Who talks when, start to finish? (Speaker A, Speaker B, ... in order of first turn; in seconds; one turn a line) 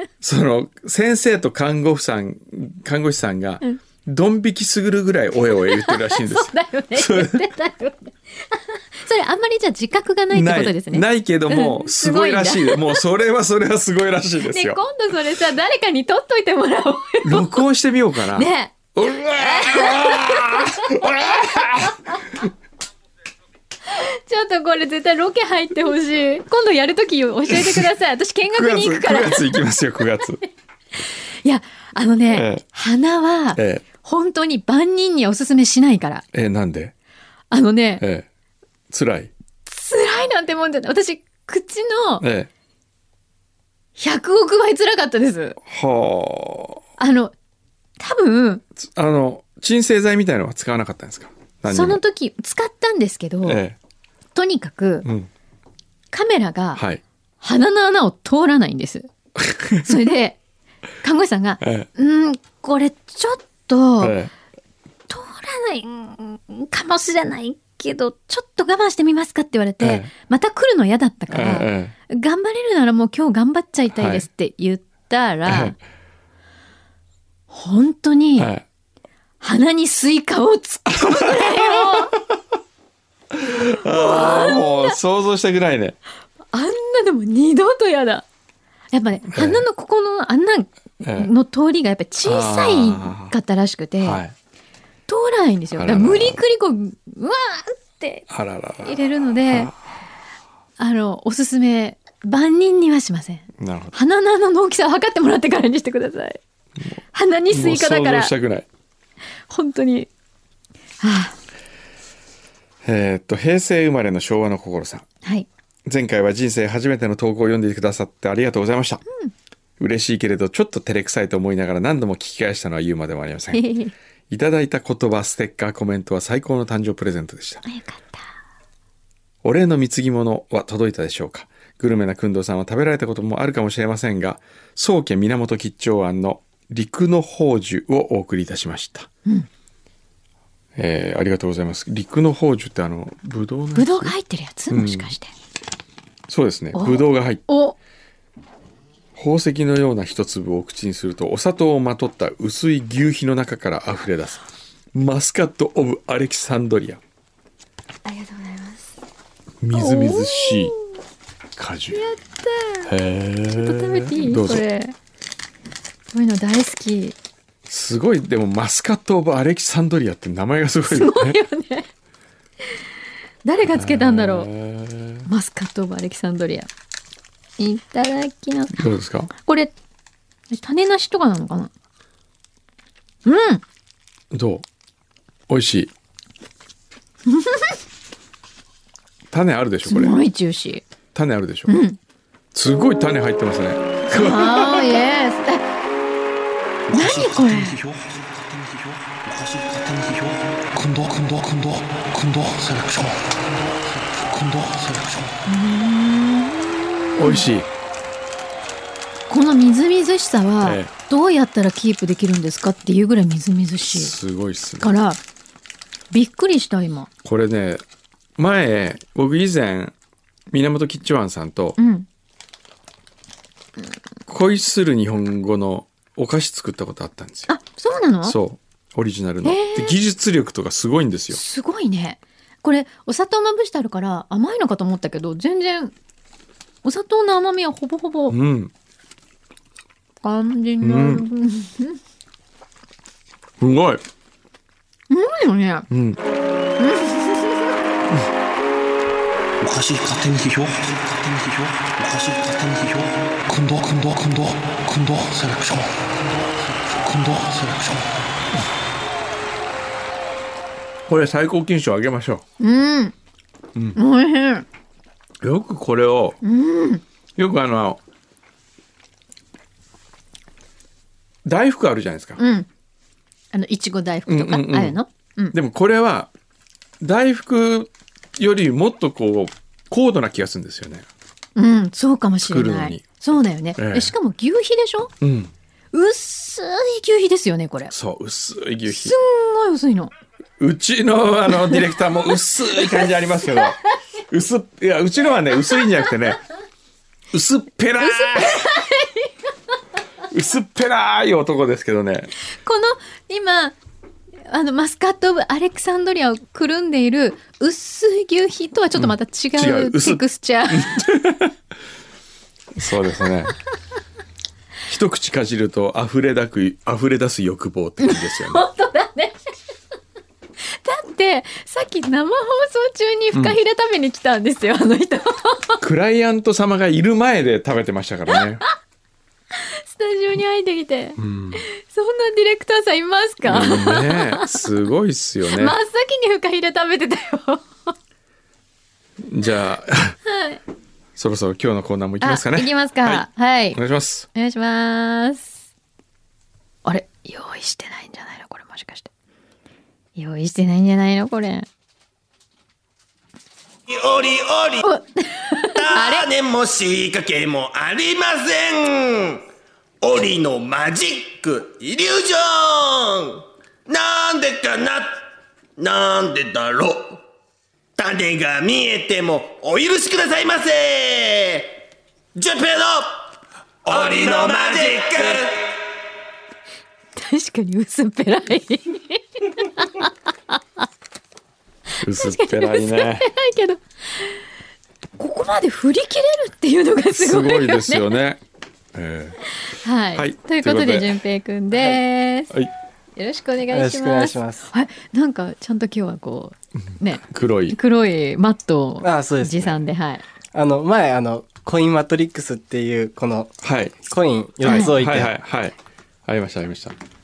Speaker A: 0.2-7.5
Speaker B: 5.7-13.0
Speaker A: 10.3-14.8
Speaker B: 14.4-17.6
Speaker A: 17.2-22.0
Speaker B: 18.3-22.2
Speaker B: 23.9-29.6
Speaker A: 27.5-27.9
Speaker A: 28.5-30.4
Speaker B: 31.4-36.2
Speaker A: 32.3-32.6
Speaker A: 33.5-33.8
Speaker A: 36.3-36.9
Speaker B: 37.5-38.0
Speaker A: 38.0-38.2
Speaker A: 38.9-39.3
Speaker B: 39.6-42.2
Speaker A: 42.2-42.5
Speaker B: 44.0-45.6
Speaker A: 45.7-46.8
Speaker B: 47.0-47.3
Speaker B: 48.0-48.6
Speaker A: 48.8-52.0
Speaker B: 51.7-53.6
Speaker A: 53.4-53.8
Speaker B: 54.3-55.1
Speaker A: 55.0-55.3
Speaker B: 56.1-56.8
Speaker A: 56.8-57.0
Speaker B: 57.4-59.1
Speaker A: 59.4-60.0
Speaker B: 59.8-60.4
Speaker B: 61.0-64.2
Speaker A: 61.6-61.9
Speaker A: 64.0-64.3
Speaker B: 65.1-75.8
Speaker A: 69.8-70.1
Speaker A: 71.3-71.9
Speaker A: 73.9-74.2
Speaker A: 75.5-75.8
Speaker B: 77.5-78.5
Speaker A: 78.4-78.6
Speaker B: 79.4-82.1
Speaker A: 80.9-82.2
Speaker A: 83.3-86.0
Speaker B: 83.8-85.0
Speaker B: 86.5-88.2
Speaker B: 88.9-94.2
Speaker A: 89.3-89.7
Speaker A: 91.0-91.3
Speaker A: 92.2-93.3
Speaker A: 94.0-94.3
Speaker B: 95.1-98.3
Speaker A: 95.8-96.4
Speaker A: 98.3-99.7
Speaker B: 98.8-99.7
Speaker B: 100.8-106.4
Speaker A: 103.6-104.0
Speaker B: 107.1-108.3
Speaker A: 107.5-108.7
Speaker B: 109.5-110.1
Speaker B: 111.0-111.3
Speaker A: 112.8-115.1
Speaker A: 115.8-119.0
Speaker A: 119.8-123.7
Speaker B: 123.5-123.9
Speaker A: 124.3-127.6
Speaker B: 127.7-128.3
Speaker A: 129.4-139.1
Speaker A: 140.8-144.1
Speaker B: 143.7-145.3
Speaker A: 144.7-145.1
Speaker A: 146.3-147.4
Speaker B: 146.7-147.7
Speaker A: 149.1-154.4
Speaker A: 154.9-157.0
Speaker B: 158.0-158.9
Speaker A: 159.6-160.7
Speaker B: 159.7-160.8
Speaker A: 161.6-162.0
Speaker B: 161.9-162.9
Speaker A: 162.8-164.6
Speaker B: 163.5-164.9
Speaker B: 166.1-167.1
Speaker A: 167.7-171.4
Speaker B: 170.9-171.9
Speaker B: 173.4-174.5
Speaker A: 173.7-175.3
Speaker B: 175.2-176.7
Speaker B: 177.6-179.7
Speaker A: 178.7-179.3
Speaker B: 180.5-181.7
Speaker B: 183.2-183.6
Speaker A: 184.3-184.6
Speaker A: 185.5-185.9
Speaker B: 187.3-187.8
Speaker A: 189.3-190.2
Speaker B: 189.8-190.8
Speaker A: 191.1-191.8
Speaker B: 191.7-192.0
Speaker A: 192.5-194.9
Speaker B: 194.1-195.6
Speaker C: 196.9-205.4
Speaker B: 196.9-197.8
Speaker B: 205.5-207.5
Speaker A: 207.2-207.7
Speaker B: 209.3-214.1
Speaker A: 210.6-210.9
Speaker A: 213.9-214.9
Speaker B: 214.8-215.2
Speaker B: 216.1-217.1
Speaker A: 217.2-217.8
Speaker A: 218.4-219.9
Speaker A: 220.5-221.8
Speaker B: 221.8-222.1
Speaker A: 224.3-227.5
Speaker B: 227.5-228.4
Speaker A: 228.2-231.4
Speaker B: 229.4-229.9
Speaker B: 231.3-235.9
Speaker B: 236.8-238.3
Speaker A: 238.3-238.7
Speaker B: 240.2-242.0
Speaker A: 240.8-241.2
Speaker A: 243.6-244.0
Speaker B: 245.1-245.9
Speaker A: 245.9-246.2
Speaker B: 246.8-247.7
Speaker C: 249.6-258.2
Speaker A: 261.1-262.4
Speaker B: 262.6-263.1
Speaker A: 263.7-264.0
Speaker B: 263.9-264.6
Speaker A: 265.4-266.4
Speaker B: 266.4-267.0
Speaker A: 267.4-268.0
Speaker A: 271.4-272.4
Speaker B: 272.4-272.7
Speaker B: 273.5-275.5
Speaker A: 274.3-275.0
Speaker A: 275.5-276.3
Speaker A: 277.0-281.1
Speaker B: 281.6-285.1
Speaker A: 282.4-283.0
Speaker A: 283.8-284.1
Speaker A: 285.2-285.5
Speaker B: 285.9-287.9
Speaker A: 287.9-289.1
Speaker B: 288.9-290.1
Speaker A: 290.6-296.4
Speaker B: 291.5-291.8
Speaker B: 292.8-293.7
Speaker A: 297.3-298.7
Speaker B: 298.0-299.3
Speaker A: 300.3-302.3
Speaker B: 302.6-303.8
Speaker B: 304.5-311.1
Speaker A: 308.9-311.5
Speaker A: 312.7-313.5
Speaker A: 314.9-318.6
Speaker B: 318.0-319.3
Speaker B: 320.6-325.8
Speaker A: 325.8-328.6
Speaker B: 329.5-334.7
Speaker A: 331.2-331.6
Speaker A: 333.4-335.8
Speaker B: 335.5-337.9
Speaker A: 339.2-340.2
Speaker B: 340.3-340.6
Speaker A: 341.2-344.3
Speaker B: 342.2-343.8
Speaker B: 344.3-345.6
Speaker B: 346.8-349.1
Speaker B: 350.1-351.7
Speaker D: 353.9-354.9
Speaker B: 354.8-356.3
Speaker D: 355.6-359.4
Speaker D: 360.0-365.2
Speaker D: 365.8-367.2
Speaker D: 368.0-371.8
Speaker D: 372.3-373.3
Speaker D: 373.8-375.7
Speaker B: 377.1-380.8
Speaker A: 382.0-383.3
Speaker B: 382.1-384.4
Speaker B: 385.2-388.2
Speaker A: 387.1-388.4
Speaker A: 388.9-389.4
Speaker B: 389.7-392.5
Speaker A: 390.1-391.2
Speaker E: 391.7-392.0
Speaker B: 393.1-400.2
Speaker E: 393.7-394.7
Speaker A: 397.3-397.8
Speaker E: 399.0-399.8
Speaker E: 400.5-405.3
Speaker A: 403.6-404.0
Speaker A: 404.6-406.9
Speaker B: 404.6-404.9